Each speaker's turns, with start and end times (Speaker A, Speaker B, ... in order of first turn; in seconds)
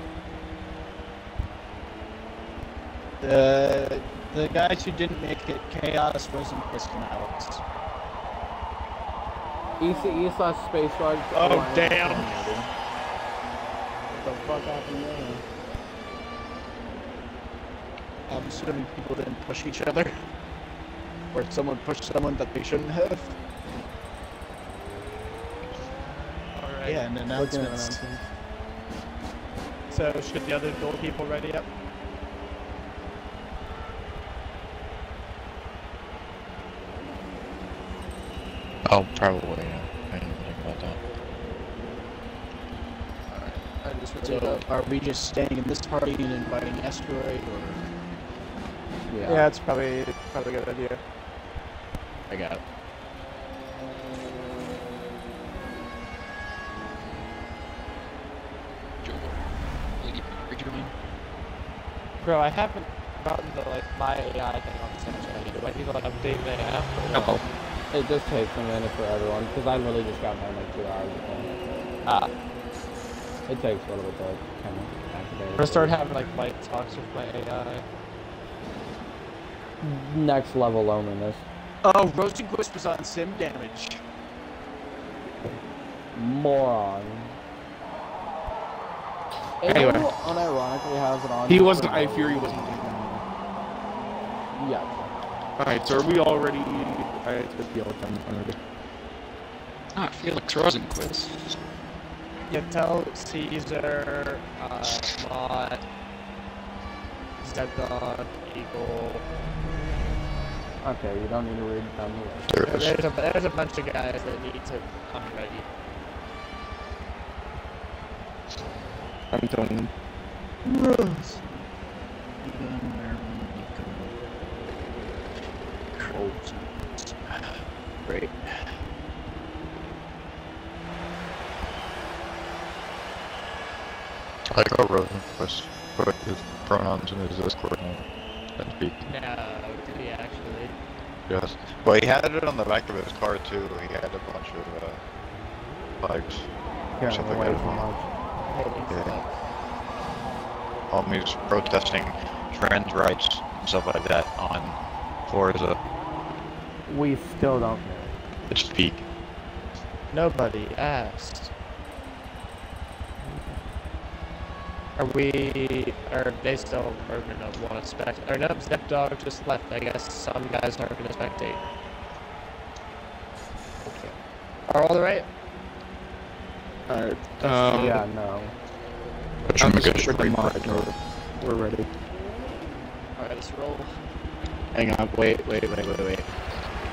Speaker A: 3.2-7.6, 11.3-12.4, 18.3-20.1, 21.3-23.3, 26.9-28.0, 44.2-47.9, 52.3-52.6, 81.8-84.0, 89.7-90.1, 92.3-92.6, 95.6-96.9, 120.7-121.6, 122.4-124.1, 126.0-127.4, 128.1-128.7, 176.9-178.0, 184.7-186.3
Speaker B: 9.8-12.7, 14.2-15.4, 27.3-28.3, 49.1-49.5, 67.9-71.7, 73.5-76.0, 79.8-81.5, 86.1-87.4, 89.6-93.2, 94.5-95.1, 110.8-112.5, 147.0-148.1, 156.9-158.2, 177.5-178.6
Speaker C: 26.5-27.1, 29.9-31.7, 43.3-44.7, 49.3-51.0, 62.2-67.4, 72.0-72.3, 75.6-77.8, 102.5-105.8, 107.4-109.2, 112.7-115.7, 139.0-140.8, 148.5-149.3, 160.1-161.5, 165.0-171.6, 173.8-174.2, 174.7-175.3, 183.2-183.9
Speaker D: 38.9-41.0, 112.5-112.8, 134.5-138.0, 138.6-139.0, 141.3-145.0, 146.0-146.5, 147.1-147.9, 148.9-149.2, 150.9-155.8, 158.5-159.1, 179.6-180.8
Speaker E: 59.0-59.4, 60.0-60.9, 67.1-67.4, 100.0-101.6
Speaker F: 91.5-92.8, 95.6-98.6, 112.7-113.0, 119.3-119.9, 179.5-181.9